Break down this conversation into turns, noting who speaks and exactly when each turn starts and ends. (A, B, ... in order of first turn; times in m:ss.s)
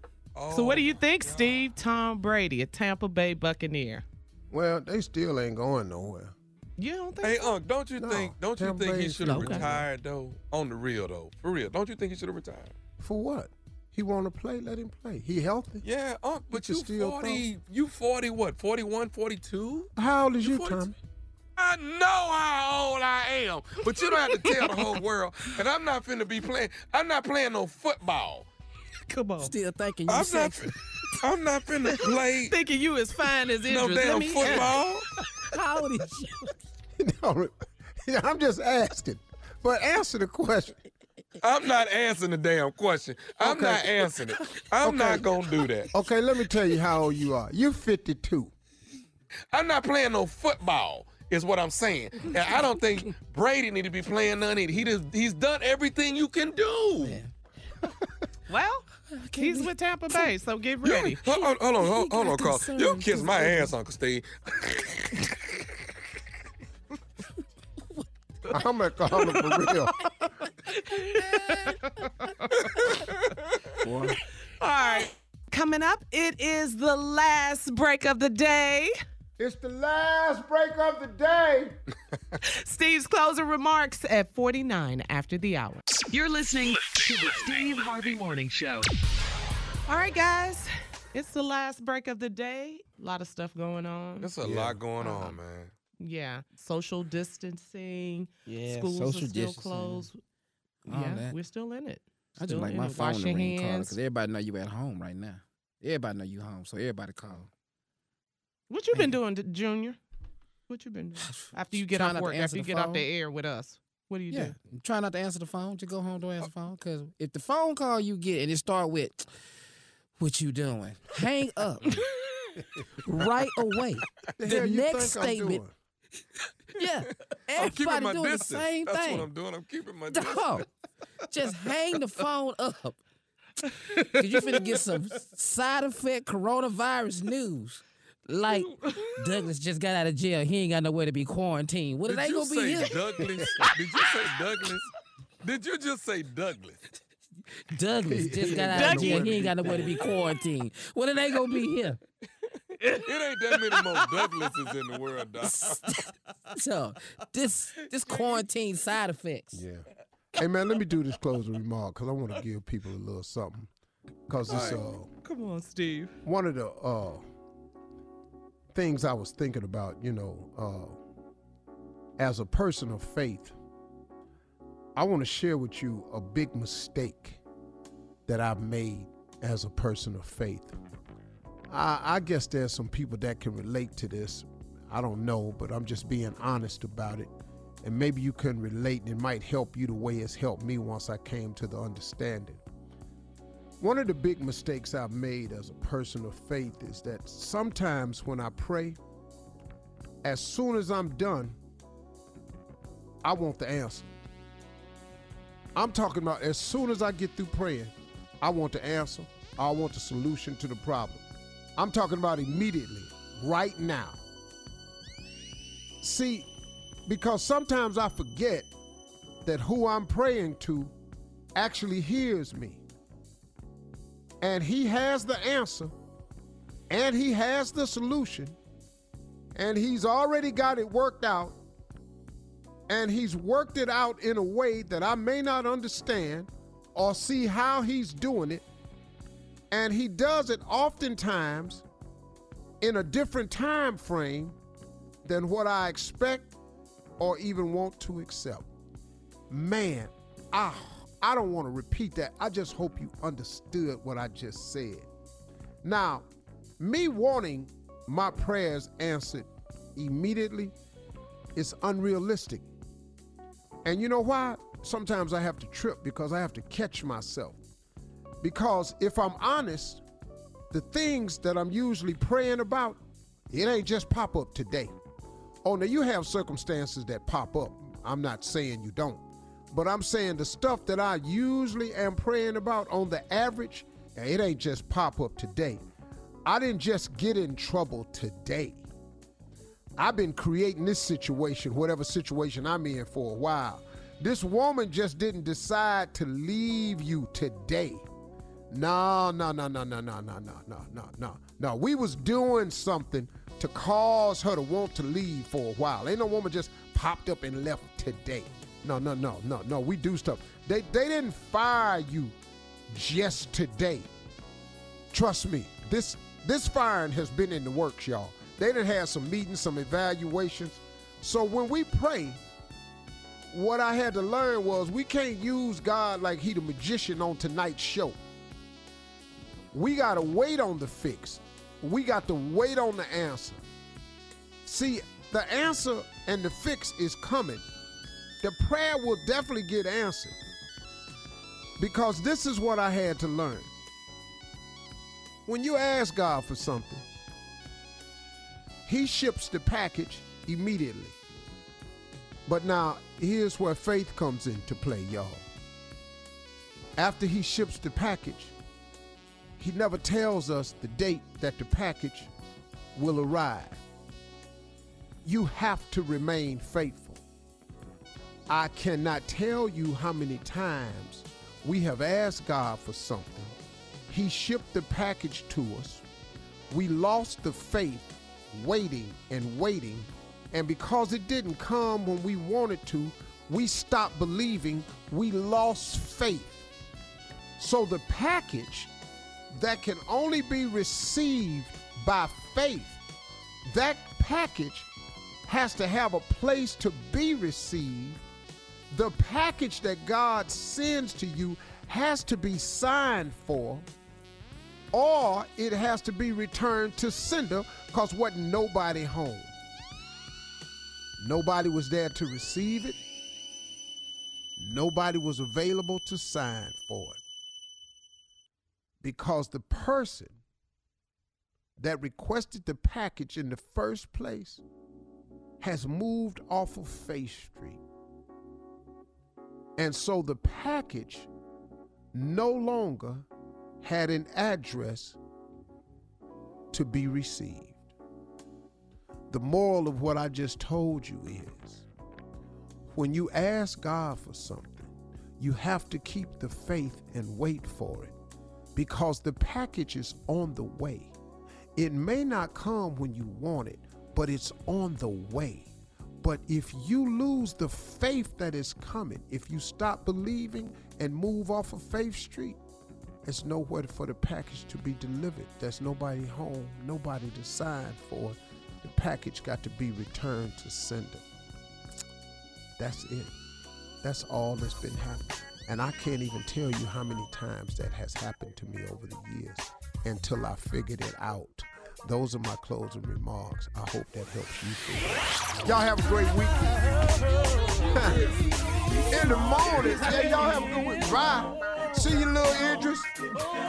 0:00.3-0:01.7 A
0:00.5-0:04.0 B
0:04.5-0:06.3 C
0:06.8-0:07.4 B
0:07.2-0:12.7 A
0:08.0-0:09.9 C
0:09.2-0:09.7 D
0:13.0-0:15.8 C
0:15.8-0:20.9 A
0:16.5-0:17.5 C
0:20.0-0:21.0 C
0:21.6-0:28.5 A
0:24.3-0:24.8 B
0:29.1-0:29.5 B
0:29.4-0:30.7 D
0:30.1-0:32.6 A
0:32.5-0:34.8 B
0:33.6-0:35.0 A
0:35.5-0:36.5 D
0:37.0-0:40.8 C
0:41.4-0:45.9 A
0:43.4-0:44.0 C
0:44.8-0:45.3 C
0:45.9-0:48.5 C
0:49.5-0:57.2 A
0:57.0-0:57.3 D
0:58.5-1:01.2 B
0:59.1-1:00.3 D
1:00.8-1:05.7 A
1:01.8-1:03.7 D
1:08.5-1:10.0 C
1:10.7-1:11.8 B
1:11.1-1:11.9 D
1:12.6-1:13.4 A
1:13.8-1:14.2 C
1:14.6-1:19.0 B
1:19.4-1:21.8 C
1:22.4-1:25.8 B
1:26.0-1:28.9 E
1:29.9-1:34.3 B
1:34.2-1:35.7 A
1:34.4-1:34.8 C
1:35.0-1:35.4 B
1:36.0-1:40.2 B
1:38.4-1:40.1 D
1:40.8-1:41.4 D
1:40.9-1:44.0 B
1:42.4-1:47.5 D
1:48.7-1:50.0 B
1:50.7-1:54.6 B
1:51.2-1:53.0 D
1:54.3-1:59.3 D
2:00.2-2:02.0 D
2:03.0-2:05.6 D
2:04.4-2:05.7 C
2:06.8-2:09.3 D
2:07.0-2:10.6 A
2:10.1-2:10.7 D
2:11.3-2:13.0 D
2:14.0-2:23.2 D
2:22.0-2:24.9 A
2:25.4-2:26.8 A
2:27.7-2:32.0 D
2:28.0-2:30.1 C
2:28.7-2:29.3 B
2:32.9-2:35.8 A
2:35.5-2:39.6 D
2:38.1-2:38.4 B
2:39.5-2:43.7 C
2:44.3-2:45.1 C
2:44.5-2:46.2 B
2:44.5-2:44.8 A
2:46.2-2:47.2 C
2:48.7-2:51.0 C
2:52.2-2:53.6 C
2:55.0-2:57.4 C
2:58.3-3:00.8 C
3:01.7-3:07.3 C
3:07.8-3:12.6 C
3:13.8-3:19.0 C
3:20.2-3:21.6 C
3:23.2-3:24.1 C
3:25.7-3:34.2 C
3:36.0-3:36.5 C
3:37.1-3:38.7 C
3:39.4-3:40.9 C
3:41.6-3:42.8 C
3:44.4-3:45.9 C
3:46.9-3:48.6 C
3:49.5-3:51.6 C
3:52.9-3:58.6 C
3:59.7-4:01.8 C
4:02.8-4:04.6 C
4:05.2-4:06.5 C
4:07.2-4:08.7 C
4:09.5-4:15.1 C
4:15.8-4:16.3 C
4:16.8-4:20.7 C
4:21.6-4:22.7 C
4:23.8-4:27.6 C
4:28.4-4:30.0 C
4:30.7-4:34.9 C
4:35.6-4:45.8 C
4:46.4-4:48.8 C
4:50.0-4:58.0 C
4:58.7-5:12.3 C
5:12.9-5:14.1 C
5:15.1-5:22.4 C
5:23.5-5:28.2 C
5:29.7-5:33.6 C
5:34.6-5:37.6 C
5:38.4-5:40.4 C
5:41.8-5:43.7 C
5:45.4-5:47.0 C
5:48.8-5:51.2 C
5:52.4-5:55.5 C
5:57.0-5:58.5 C
5:59.6-6:02.3 C
6:02.9-6:03.8 C
6:05.2-6:07.2 C
6:08.5-6:13.6 C
6:14.1-6:16.0 C
6:16.7-6:26.6 C
6:27.6-6:28.9 C
6:29.5-6:33.0 C
6:33.7-6:34.9 C
6:35.5-6:38.2 C
6:38.9-6:43.9 C
6:44.9-6:49.5 C
6:51.2-6:53.0 C
6:54.6-6:57.2 C
6:59.0-7:00.4 C
7:01.8-7:04.6 C
7:05.6-7:07.8 C
7:09.8-7:11.3 C
7:12.1-7:13.2 C
7:13.8-7:15.2 C
7:16.7-7:17.9 C
7:19.3-7:21.8 C
7:22.9-7:28.1 C
7:28.7-7:31.1 C
7:31.8-7:42.6 C
7:43.2-7:51.2 C
7:52.8-7:53.3 C
7:54.0-8:06.9 C
8:07.8-8:08.3 C
8:09.1-8:13.1 C